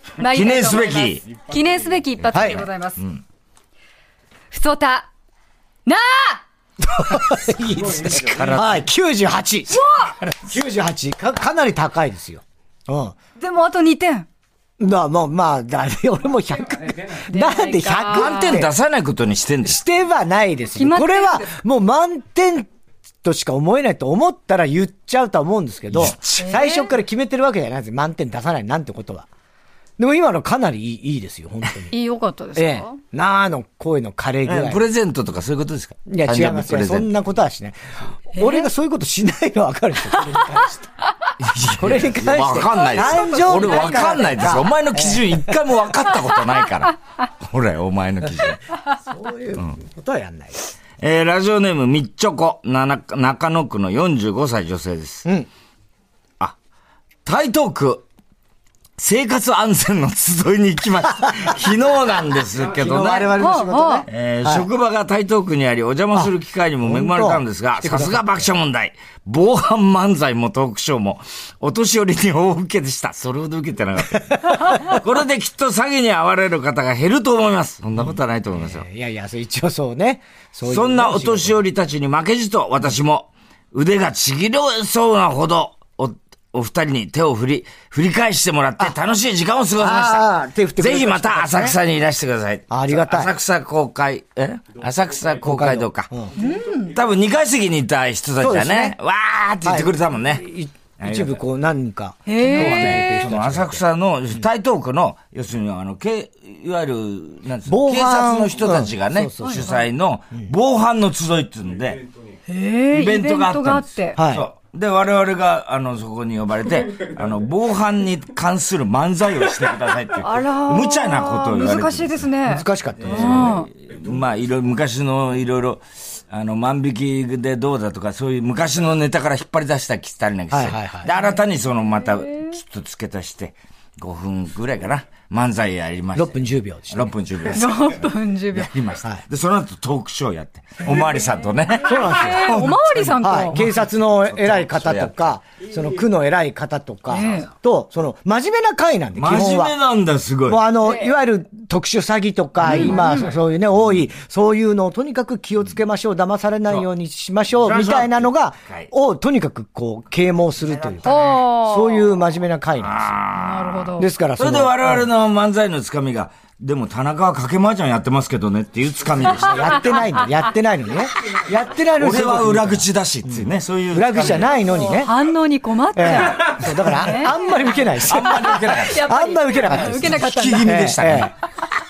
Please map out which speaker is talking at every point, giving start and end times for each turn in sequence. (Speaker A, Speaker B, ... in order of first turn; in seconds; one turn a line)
Speaker A: 0.2-3.0
Speaker B: 0.2-1.2
Speaker B: 2.3-3.2
Speaker C: 2.3-2.6
Speaker A: 4.5-5.1
Speaker A: 5.9-6.4
Speaker C: 6.8-13.2
Speaker B: 8.0-8.8
Speaker A: 9.7-10.2
Speaker A: 13.4-14.3
Speaker C: 14.8-18.7
Speaker A: 17.3-18.6
Speaker B: 18.1-19.8
Speaker C: 19.6-22.7
Speaker A: 20.8-21.5
Speaker C: 23.2-29.3
Speaker B: 25.9-26.5
Speaker A: 26.4-26.9
Speaker C: 30.0-31.9
Speaker A: 31.9-33.0
Speaker C: 32.5-34.9
Speaker B: 34.5-37.1
Speaker C: 36.1-40.9
Speaker A: 38.4-38.7
Speaker A: 40.3-40.6
Speaker B: 41.4-48.6
Speaker C: 41.8-45.6
Speaker A: 42.7-44.5
Speaker C: 49.0-50.6
Speaker B: 51.0-55.2
Speaker B: 57.2-58.0
Speaker B: 59.0-63.4
Speaker C: 62.7-64.7
Speaker A: 63.4-64.0
Speaker B: 64.1-78.8
Speaker C: 66.8-68.5
Speaker C: 78.5-81.6
Speaker B: 80.7-96.1
Speaker C: 89.8-91.8
Speaker C: 92.7-93.3
Speaker C: 95.5-96.3
Speaker A: 96.4-97.0
Speaker B: 96.9-100.5
Speaker C: 98.4-99.0
Speaker C: 99.6-103.8
Speaker B: 101.0-101.4
Speaker A: 102.2-103.2
Speaker B: 102.4-112.0
Speaker C: 107.7-109.8
Speaker A: 109.4-109.8
Speaker A: 112.5-114.2
Speaker B: 112.9-122.3
Speaker C: 114.2-114.5
Speaker A: 120.2-123.7
Speaker C: 122.5-123.6
Speaker B: 123.0-136.4
Speaker C: 130.5-131.1
Speaker A: 132.0-132.6
Speaker C: 136.2-137.1
Speaker B: 136.9-145.2
Speaker A: 137.5-138.8
Speaker A: 141.7-143.6
Speaker C: 141.8-149.8
Speaker A: 147.1-147.5
Speaker B: 149.2-150.6
Speaker C: 150.5-163.2
Speaker A: 150.8-151.1
Speaker A: 152.7-153.3
Speaker B: 152.7-153.1
Speaker B: 157.6-158.9
Speaker B: 160.7-161.2
Speaker A: 161.0-162.1
Speaker B: 162.8-170.1
Speaker A: 163.3-164.1
Speaker C: 164.0-165.1
Speaker C: 169.3-175.1
Speaker B: 172.0-174.6
Speaker A: 174.7-180.8
Speaker C: 175.9-181.3
Speaker B: 177.9-179.0
Speaker B: 179.5-181.3